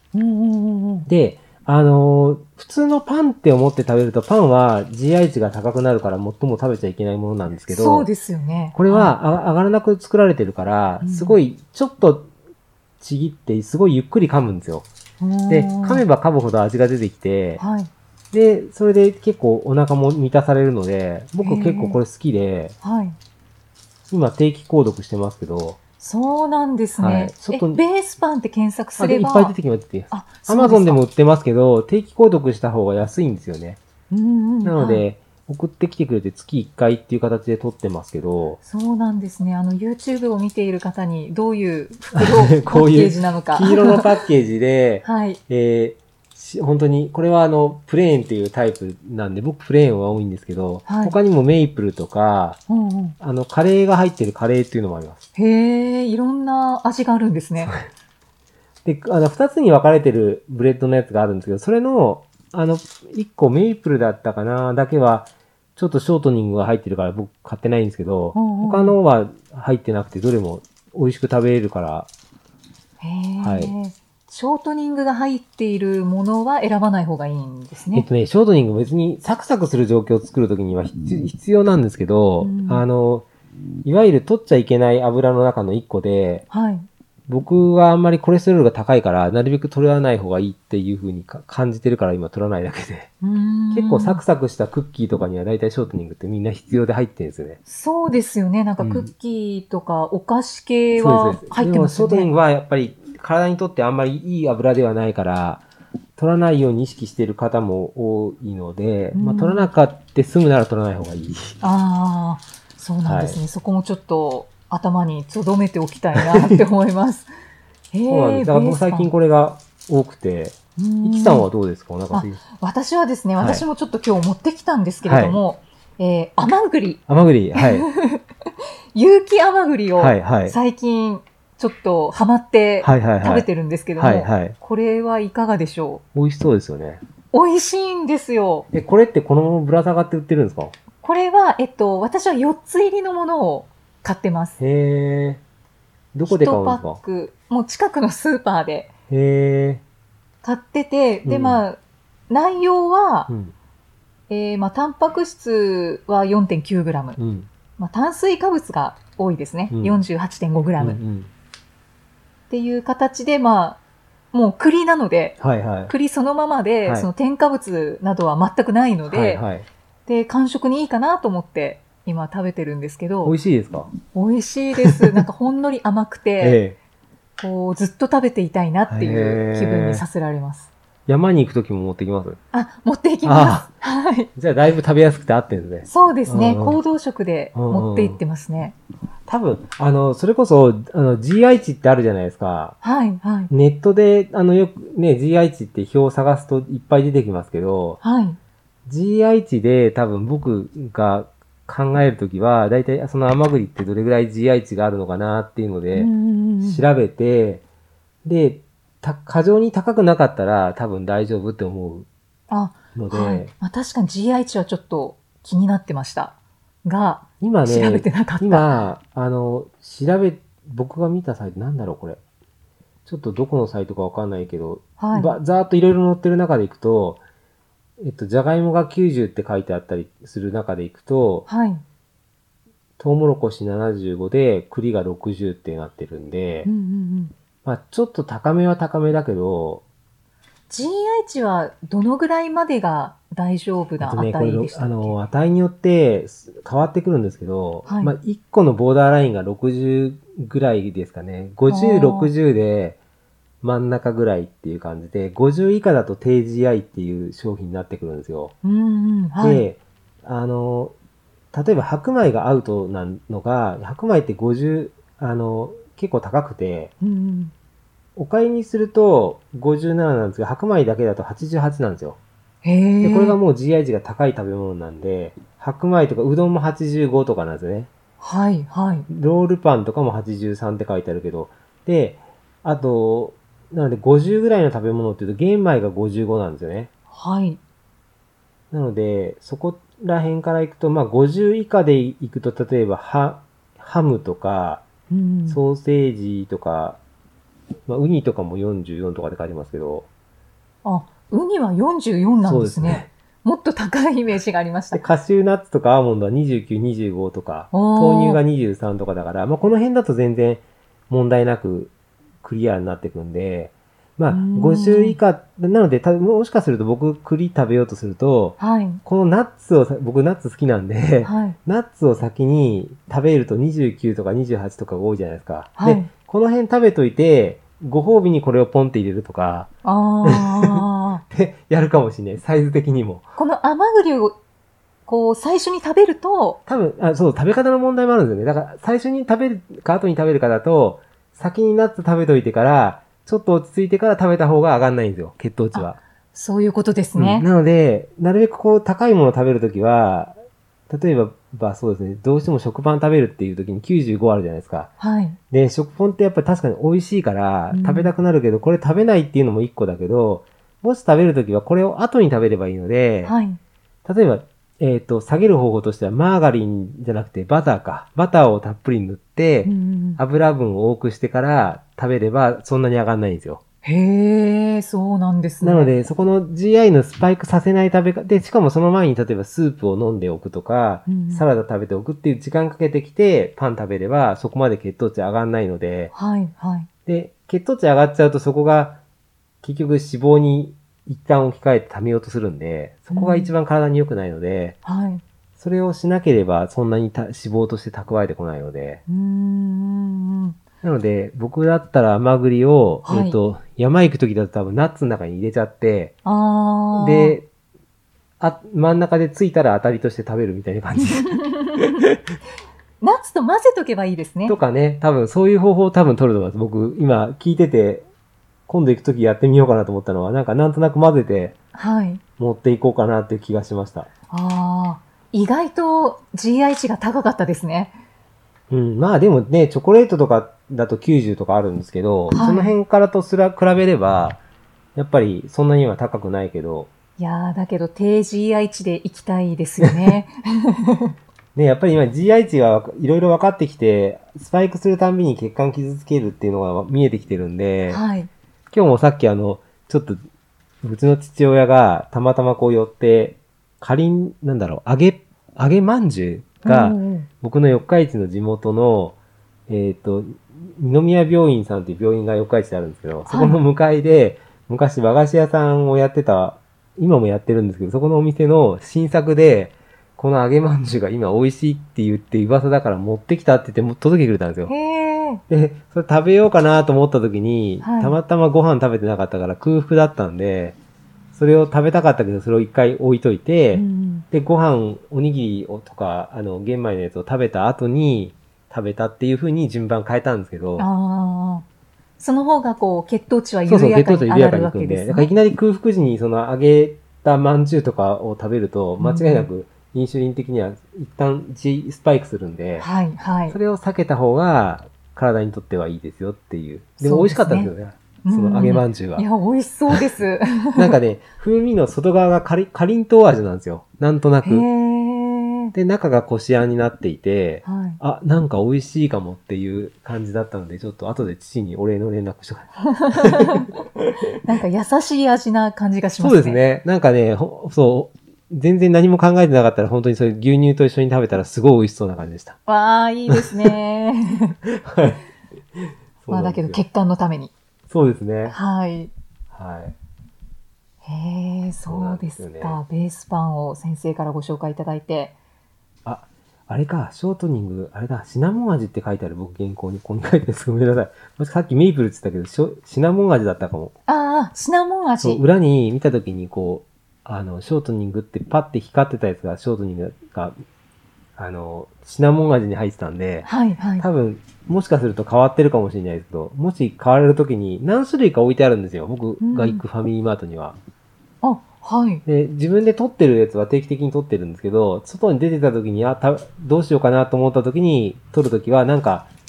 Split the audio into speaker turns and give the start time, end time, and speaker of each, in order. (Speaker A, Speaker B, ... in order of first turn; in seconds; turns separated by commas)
Speaker A: 0.1-1.1, Speaker B: 1.1-8.1, Speaker A: 7.7-9.1, Speaker B: 8.7-12.3, Speaker A: 11.0-11.3, Speaker B: 13.0-14.8, Speaker A: 15.2-16.0, Speaker B: 15.5-17.6, Speaker A: 17.6-17.9, Speaker B: 18.3-22.7, Speaker A: 21.4-22.0, Speaker A: 22.8-23.2, Speaker B: 24.1-25.8, Speaker A: 26.0-29.5, Speaker B: 27.0-27.8, Speaker B: 29.0-33.8, Speaker A: 30.1-31.0, Speaker A: 34.1-35.0, Speaker B: 34.6-38.6, Speaker A: 38.6-44.1, Speaker B: 42.1-52.6, Speaker A: 45.0-45.4, Speaker A: 50.9-51.1, Speaker A: 52.7-53.1, Speaker B: 53.2-55.2, Speaker A: 55.3-57.7, Speaker B: 58.8-72.1, Speaker A: 68.3-69.0, Speaker A: 73.0-78.0, Speaker B: 73.4-73.7, Speaker B: 77.9-83.2, Speaker A: 82.4-82.8, Speaker B: 83.8-86.5, Speaker A: 86.5-86.9, Speaker B: 87.3-93.1, Speaker A: 93.2-94.2, Speaker B: 93.7-97.6, Speaker A: 97.7-102.3, Speaker B: 98.8-99.1, Speaker B: 101.0-105.6, Speaker B: 106.2-111.6, Speaker A: 109.1-109.7, Speaker A: 111.6-117.3, Speaker B: 113.0-113.4, Speaker B: 116.2-116.6, Speaker A: 117.9-119.1, Speaker B: 118.1-122.4, Speaker A: 120.8-121.5, Speaker A: 122.1-127.0, Speaker B: 123.4-123.7, Speaker B: 125.0-125.4, Speaker B: 127.1-127.9, Speaker A: 127.5-128.2, Speaker A: 128.9-136.0, Speaker B: 130.0-130.6, Speaker B: 132.8-133.5, Speaker B: 134.0-134.6, Speaker B: 136.1-137.0, Speaker A: 137.3-138.7, Speaker B: 138.7-140.7, Speaker A: 141.0-144.6, Speaker B: 144.6-145.4, Speaker B: 146.1-147.0, Speaker A: 146.2-148.9, Speaker B: 149.1-149.8, Speaker A: 150.4-153.3, Speaker B: 151.2-151.6, Speaker B: 153.3-153.5, Speaker A: 154.3-157.2, Speaker B: 157.2-157.5, Speaker A: 157.8-161.0, Speaker B: 159.7-160.0, Speaker B: 160.8-161.3, Speaker A: 162.5-163.8, Speaker A: 164.3-169.4, Speaker B: 165.4-165.9, Speaker B: 166.8-167.1, Speaker B: 169.1-169.7, Speaker A: 170.1-173.3, Speaker B: 173.2-173.9, Speaker A: 174.1-176.6, Speaker B: 176.4-176.8, Speaker A: 177.4-180.7, Speaker B: 178.9-180.0, Speaker B: 181.1-182.4, Speaker A: 182.5-184.3, Speaker B: 183.2-183.7, Speaker B: 184.3-186.8, Speaker A: 185.8-188.8, Speaker B: 187.5-188.2, Speaker B: 189.2-192.8, Speaker A: 192.8-193.5, Speaker B: 193.5-198.0, Speaker A: 198.0-198.4, Speaker B: 198.8-207.6, Speaker A: 205.9-206.8, Speaker B: 208.2-212.1, Speaker A: 212.5-218.7, Speaker B: 212.9-213.5, Speaker B: 217.4-222.2, Speaker B: 223.1-227.2, Speaker A: 225.0-225.3, Speaker B: 228.0-231.5, Speaker A: 231.5-231.8, Speaker B: 233.0-236.7, Speaker A: 236.6-237.3, Speaker B: 237.6-239.8, Speaker A: 240.7-245.2, Speaker B: 244.0-253.0, Speaker A: 247.8-248.1, Speaker A: 251.7-252.3, Speaker B: 253.6-258.5, Speaker A: 258.6-259.6, Speaker B: 259.4-260.9, Speaker B: 261.5-266.9, Speaker A: 267.0-267.5, Speaker B: 268.1-272.2, Speaker A: 272.6-273.4, Speaker B: 273.0-277.9, Speaker A: 278.2-279.1, Speaker B: 279.1-286.9, Speaker A: 287.1-287.6, Speaker B: 288.7-294.8, Speaker A: 295.1-295.6, Speaker B: 295.5-297.0, Speaker B: 297.9-300.1, Speaker A: 300.8-305.0, Speaker B: 302.4-303.1, Speaker B: 304.9-329.7, Speaker A: 307.7-308.4, Speaker A: 314.3-315.2, Speaker A: 318.6-319.0, Speaker A: 321.2-321.6, Speaker A: 325.8-326.1, Speaker A: 329.8-331.2, Speaker B: 330.2-333.3, Speaker A: 333.4-334.4, Speaker A: 335.1-336.6, Speaker B: 336.7-346.0, Speaker A: 345.7-347.4, Speaker B: 347.1-350.3, Speaker B: 350.9-354.9, Speaker A: 355.0-355.4, Speaker B: 355.5-363.4, Speaker A: 357.7-358.1, Speaker A: 363.2-363.6, Speaker B: 364.0-373.6, Speaker A: 369.6-370.2, Speaker A: 373.8-375.9, Speaker B: 375.6-386.1, Speaker A: 381.1-381.4, Speaker A: 386.1-386.9, Speaker B: 387.1-389.0, Speaker B: 389.6-394.8, Speaker A: 393.1-393.5, Speaker A: 394.8-395.2, Speaker B: 395.6-399.0, Speaker A: 399.1-400.6, Speaker B: 400.8-406.1, Speaker A: 403.0-403.4, Speaker A: 406.2-407.4, Speaker B: 407.0-407.4, Speaker B: 408.4-412.1, Speaker A: 411.2-412.0, Speaker A: 413.0-414.6, Speaker B: 414.5-418.1, Speaker B: 418.7-421.6, Speaker A: 421.7-422.2, Speaker B: 422.4-424.1, Speaker A: 424.3-428.0, Speaker B: 428.7-434.4, Speaker A: 432.3-432.7, Speaker B: 434.9-436.9, Speaker A: 437.2-441.1, Speaker B: 439.8-440.1, Speaker B: 441.5-448.0, Speaker A: 447.9-448.3, Speaker B: 448.7-450.2, Speaker B: 450.8-459.1, Speaker A: 456.6-457.3, Speaker B: 459.7-474.7, Speaker A: 463.3-463.6, Speaker A: 474.7-475.4, Speaker B: 475.5-480.8, Speaker A: 477.8-478.2, Speaker B: 481.3-490.9, Speaker A: 483.7-484.2, Speaker A: 490.8-491.6, Speaker A: 492.2-495.3, Speaker B: 493.7-502.9, Speaker A: 499.0-499.5, Speaker A: 502.8-503.6, Speaker B: 503.5-509.2, Speaker A: 507.0-507.7, Speaker A: 508.2-510.9, Speaker B: 510.7-514.7, Speaker A: 514.4-515.7, Speaker B: 515.7-524.1, Speaker A: 517.6-518.0, Speaker A: 522.9-523.7, Speaker A: 524.4-526.6, Speaker B: 526.2-532.6, Speaker A: 532.7-534.6, Speaker B: 533.3-533.7, Speaker B: 534.6-535.2, Speaker B: 535.7-536.8, Speaker A: 536.3-537.5, Speaker B: 537.9-538.5, Speaker A: 538.5-539.1, Speaker B: 539.5-539.9, Speaker A: 541.0-545.3, Speaker B: 541.8-542.8, Speaker B: 546.0-553.9, Speaker A: 554.1-555.4, Speaker B: 555.2-560.5, Speaker B: 561.4-570.8, Speaker A: 563.4-564.0, Speaker A: 569.4-569.8, Speaker A: 571.4-572.2, Speaker B: 572.2-579.3